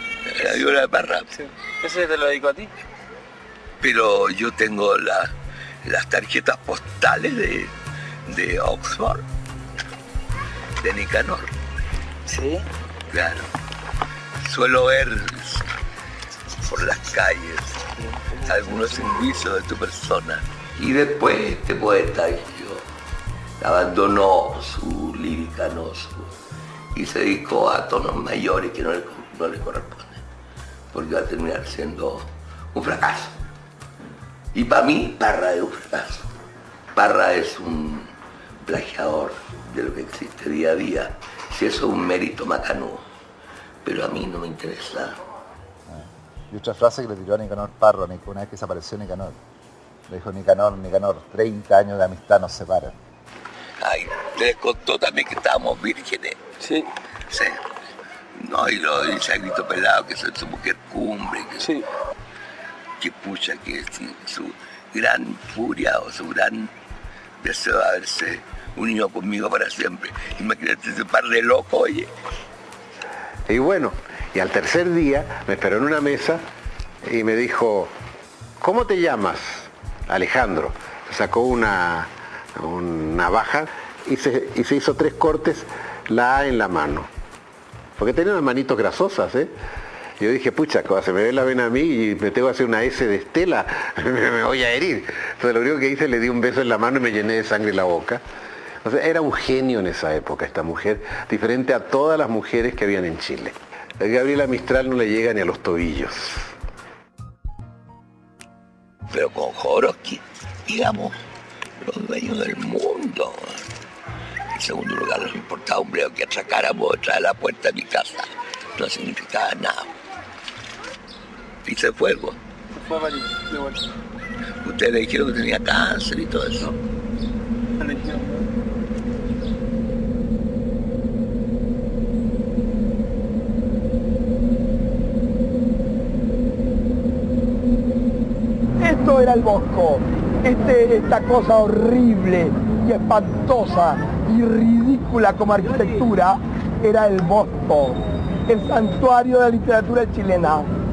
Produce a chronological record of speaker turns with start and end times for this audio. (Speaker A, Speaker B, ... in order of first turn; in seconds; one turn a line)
Speaker A: 0.2-1.2
Speaker B: 1.3-2.7
Speaker A: 3.8-7.7
Speaker A: 8.2-9.2
Speaker A: 10.8-11.5
Speaker A: 13.1-13.5
Speaker A: 14.4-15.6
Speaker A: 16.6-17.8
Speaker A: 18.4-22.9
Speaker A: 23.6-26.4
Speaker A: 26.9-30.2
Speaker A: 30.9-33.4
Speaker A: 34.5-36.3
Speaker A: 36.9-38.1
Speaker A: 38.6-43.0
Speaker A: 43.8-45.2
Speaker C: 45.9-49.4
Speaker C: 50.1-53.0
Speaker A: 53.8-56.4
Speaker B: 56.6-56.9
Speaker A: 57.3-57.6
Speaker A: 58.4-61.7
Speaker A: 63.0-66.7
Speaker A: 67.4-72.1
Speaker D: 73.5-76.4
Speaker D: 77.0-77.9
Speaker D: 78.6-87.1
Speaker D: 88.0-89.5
Speaker D: 90.2-98.2
Speaker D: 98.8-106.5
Speaker A: 109.1-111.2
Speaker A: 111.8-113.6
Speaker A: 114.5-119.9
Speaker A: 121.6-122.4
Speaker B: 122.7-123.8
Speaker A: 124.6-126.7
Speaker B: 127.8-128.4
Speaker E: 138.8-150.7